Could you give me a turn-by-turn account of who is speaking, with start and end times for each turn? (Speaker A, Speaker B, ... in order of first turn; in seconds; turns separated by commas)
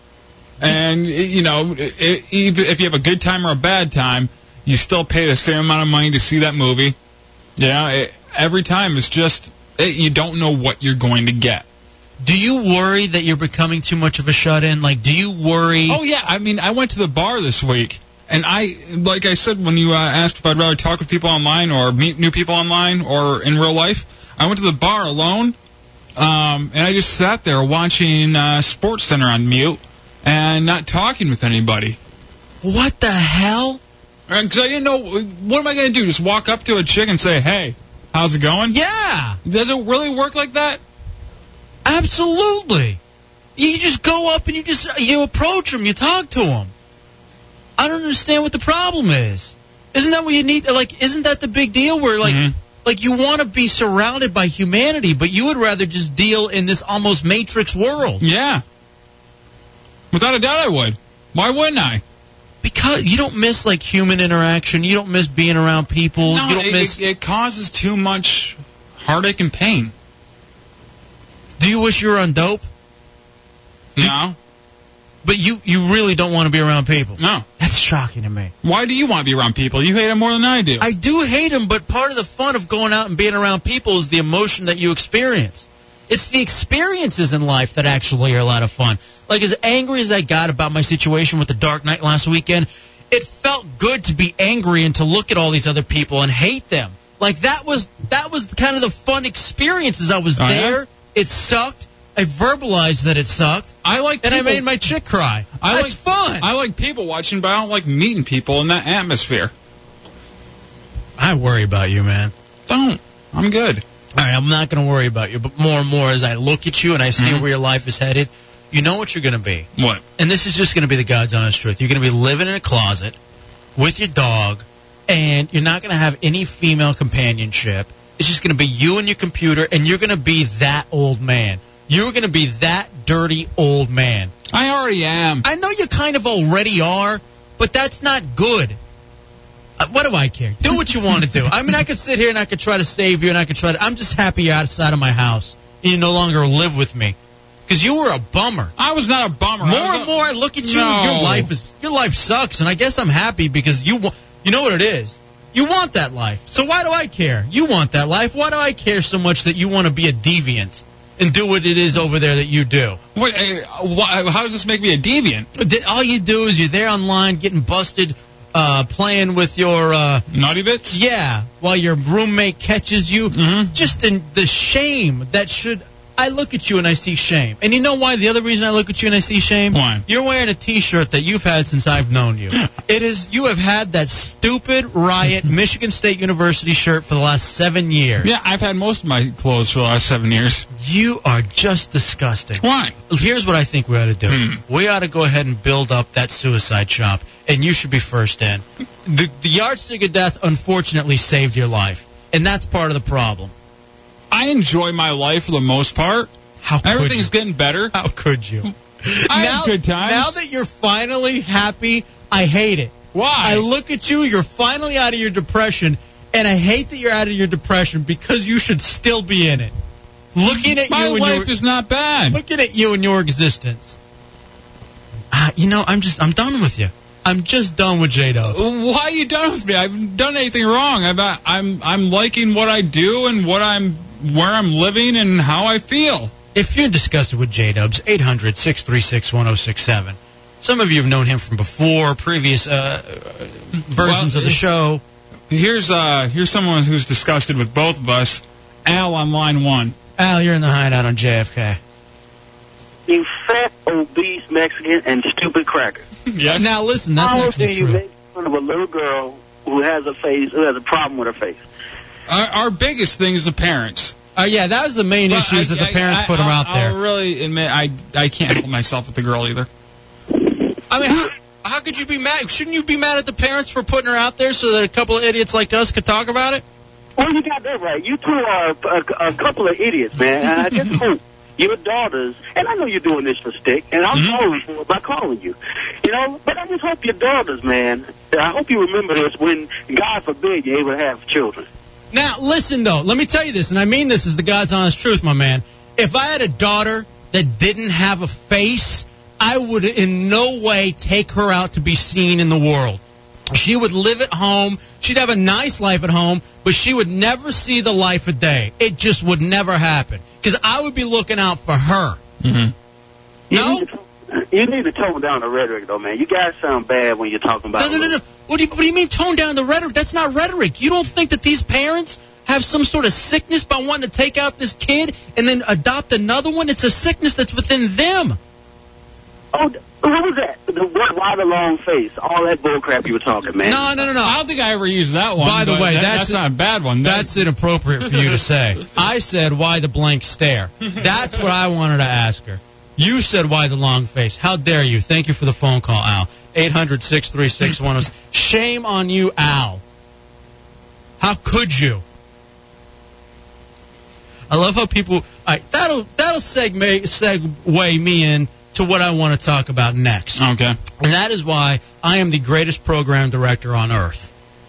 Speaker A: 0.6-7.0, Speaker A: 7.6-11.6, Speaker B: 12.2-16.0, Speaker A: 15.9-25.5, Speaker A: 26.1-32.0, Speaker B: 32.6-33.8, Speaker A: 34.3-38.8, Speaker B: 38.7-39.4, Speaker A: 39.4-40.8, Speaker B: 41.8-43.0, Speaker B: 43.6-46.7, Speaker B: 47.8-58.2, Speaker A: 52.2-52.5, Speaker A: 58.2-58.6, Speaker A: 60.1-62.0, Speaker B: 62.6-67.0, Speaker A: 66.2-69.9, Speaker B: 71.6-72.7, Speaker A: 74.0-74.3, Speaker B: 75.2-78.5, Speaker A: 77.2-77.5, Speaker A: 78.6-80.9, Speaker B: 80.8-106.5, Speaker A: 100.4-100.8, Speaker A: 103.8-104.8, Speaker A: 105.6-109.5, Speaker B: 111.2-112.3, Speaker A: 112.7-113.8, Speaker B: 114.1-119.7, Speaker A: 117.2-117.5, Speaker A: 119.8-120.0, Speaker B: 120.2-123.2, Speaker B: 123.8-134.3, Speaker A: 134.5-135.4, Speaker B: 135.4-138.8, Speaker B: 139.8-147.1, Speaker B: 147.7-148.7, Speaker A: 148.8-151.5, Speaker B: 149.6-163.0, Speaker A: 163.1-165.5, Speaker B: 165.6-170.2, Speaker A: 170.3-171.0, Speaker B: 170.9-188.3, Speaker A: 173.3-173.9, Speaker A: 179.7-180.0, Speaker A: 188.2-190.7, Speaker B: 190.7-203.5, Speaker A: 192.6-192.9, Speaker A: 194.3-194.6, Speaker A: 204.3-206.3, Speaker B: 206.6-207.3, Speaker A: 206.8-207.9, Speaker B: 207.9-219.7, Speaker A: 209.3-210.4, Speaker A: 213.1-213.7, Speaker B: 220.3-221.5, Speaker A: 220.5-222.4, Speaker B: 222.3-223.9, Speaker B: 225.3-228.6, Speaker A: 228.4-236.3, Speaker B: 236.5-245.0, Speaker A: 244.0-244.6, Speaker A: 245.5-249.9, Speaker B: 250.2-251.8, Speaker C: 253.1-256.0, Speaker A: 256.3-256.7, Speaker B: 256.5-258.0, Speaker C: 257.2-261.6, Speaker A: 262.3-264.1, Speaker B: 264.4-266.9, Speaker A: 265.3-269.7, Speaker B: 270.9-276.6, Speaker C: 277.2-291.6, Speaker B: 292.1-303.0, Speaker B: 303.5-312.2, Speaker A: 312.4-312.7, Speaker C: 313.5-318.2, Speaker B: 313.5-313.9, Speaker B: 317.8-328.4, Speaker C: 329.5-334.0, Speaker B: 333.6-334.4, Speaker A: 334.2-337.4, Speaker B: 335.4-336.4, Speaker B: 337.0-349.8, Speaker B: 351.2-352.0, Speaker B: 354.5-360.4, Speaker A: 360.4-360.8, Speaker B: 361.0-364.3